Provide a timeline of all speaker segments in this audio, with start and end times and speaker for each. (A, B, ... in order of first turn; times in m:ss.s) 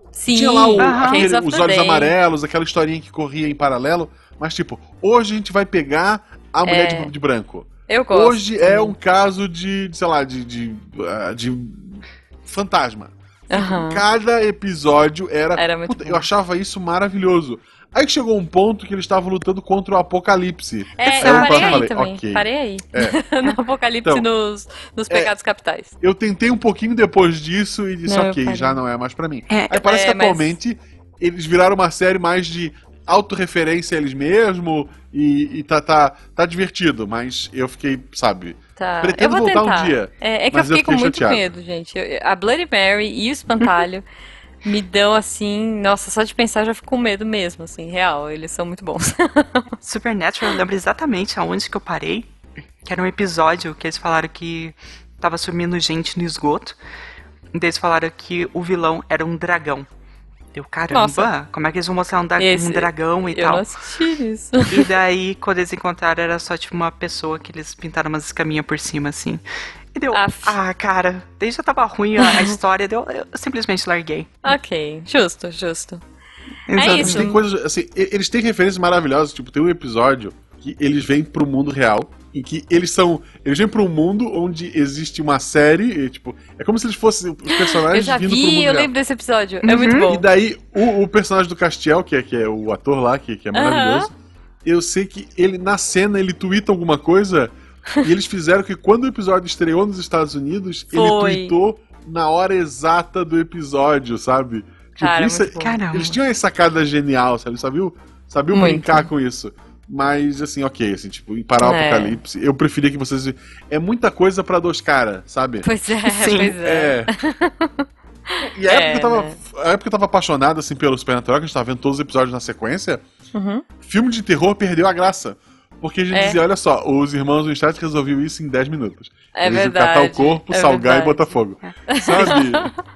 0:00.1-0:02.1 A
0:00.3-0:23.2 B
0:00.8-0:01.3 C
0:06.6-0:07.1 A
0:07.9-0:08.9 A
0:13.5-0:14.0 A
0:15.6-0:16.2 A
0:21.0-0:25.9 A
0:21.0-0:21.8 C
0:26.0-0:41.4 B
0:28.1-0:28.8 A
0:29.5-0:29.8 C
0:29.8-0:30.5 A
0:38.8-0:44.0 A
0:44.6-0:49.7 A
0:49.8-0:52.3 C
0:52.8-0:56.7 C
0:57.5-0:59.9 C
1:00.5-1:03.6 C
1:00.9-1:01.3 A
1:02.4-1:04.9 A
1:04.7-1:09.4 C
1:09.9-1:14.4 C
1:10.1-1:10.6 A
1:12.2-1:12.5 A
1:14.4-1:16.0 A
1:16.7-1:17.4 C
1:16.8-1:17.3 A
1:16.8-1:28.9 B
1:27.5-1:30.2 A
1:29.6-1:30.1 C
1:30.1-1:34.1 B
1:33.5-1:34.1 A
1:34.6-1:57.1 B
1:40.9-1:41.6 A
1:45.0-1:45.8 A
1:45.6-1:46.2 C
1:48.5-1:49.1 A
1:51.6-1:52.2 A
1:55.6-1:59.4 A
1:58.5-2:03.0 B
2:03.3-2:03.6 A
2:03.8-2:12.7 B
2:06.1-2:06.4 A
2:09.3-2:11.3 A
2:11.6-2:12.4 C
2:11.9-2:12.8 A